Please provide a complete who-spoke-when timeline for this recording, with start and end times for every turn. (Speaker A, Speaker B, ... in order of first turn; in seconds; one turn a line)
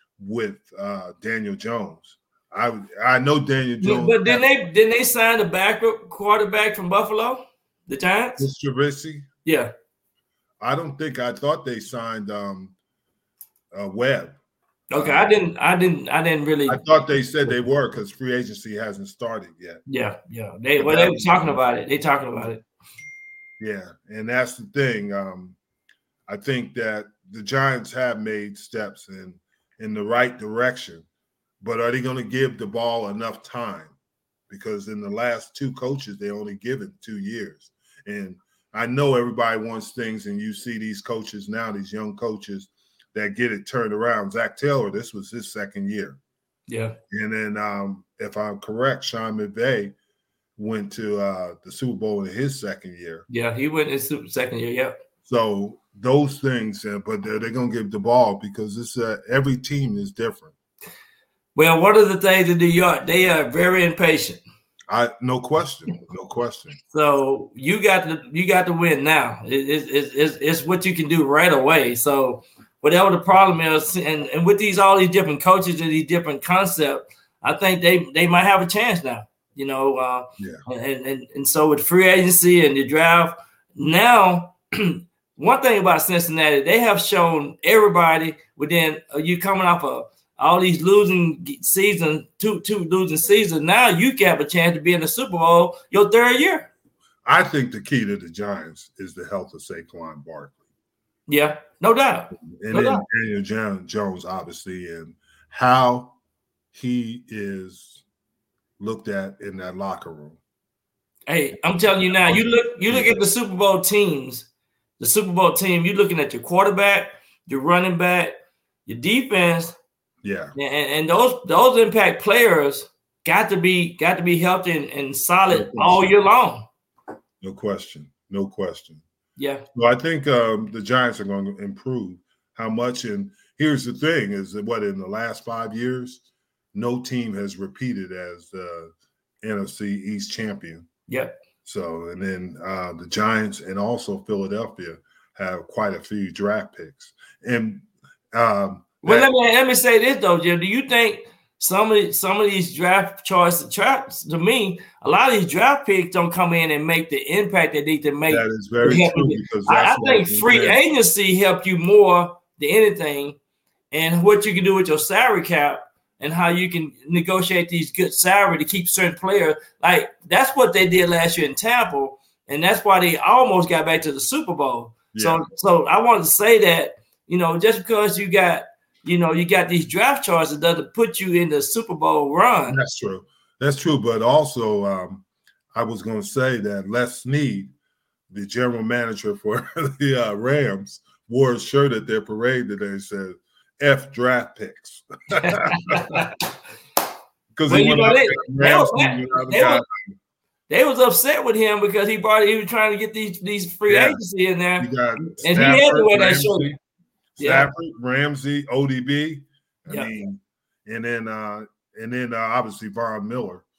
Speaker A: 0.2-4.4
Speaker B: 3.8-8.4
Speaker A: 8.4-9.3
Speaker B: 9.4-9.7
Speaker A: 10.6-12.7
Speaker A: 13.7-14.4
Speaker B: 14.9-16.8
Speaker A: 14.9-15.3
Speaker A: 16.7-19.8
Speaker B: 19.9-22.6
Speaker A: 20.8-21.6
Speaker A: 23.6-25.6
Speaker A: 26.3-31.0
Speaker A: 31.6-33.9
Speaker A: 34.5-46.2
Speaker B: 46.7-47.0
Speaker A: 47.1-49.9
Speaker A: 50.6-53.2
Speaker B: 53.3-54.9
Speaker A: 55.2-60.5
Speaker B: 61.5-64.4
Speaker A: 64.9-66.8
Speaker B: 66.9-96.7
Speaker A: 97.2-100.6
Speaker B: 101.3-103.0
Speaker A: 102.3-106.1
Speaker A: 106.7-108.0
Speaker A: 108.8-110.4
Speaker B: 111.3-114.5
Speaker A: 112.1-113.2
Speaker B: 115.0-118.3
Speaker B: 118.8-119.8
Speaker A: 120.2-120.5
Speaker B: 120.5-126.7
Speaker A: 125.5-126.1
Speaker A: 127.4-129.0
Speaker B: 129.4-129.6
Speaker A: 129.7-136.2
Speaker A: 136.7-138.9
Speaker A: 139.4-140.9
Speaker B: 141.1-141.3
Speaker A: 141.6-149.3
Speaker B: 149.0-163.4
Speaker A: 158.3-160.8
Speaker B: 163.9-182.8
Speaker A: 175.1-175.4
Speaker A: 182.7-187.7
Speaker A: 188.3-196.2
Speaker B: 195.4-196.3
Speaker A: 197.6-199.9
Speaker B: 197.7-199.8
Speaker B: 200.7-206.7
Speaker A: 203.9-204.2
Speaker A: 204.8-206.8
Speaker A: 207.4-213.6
Speaker B: 207.4-207.7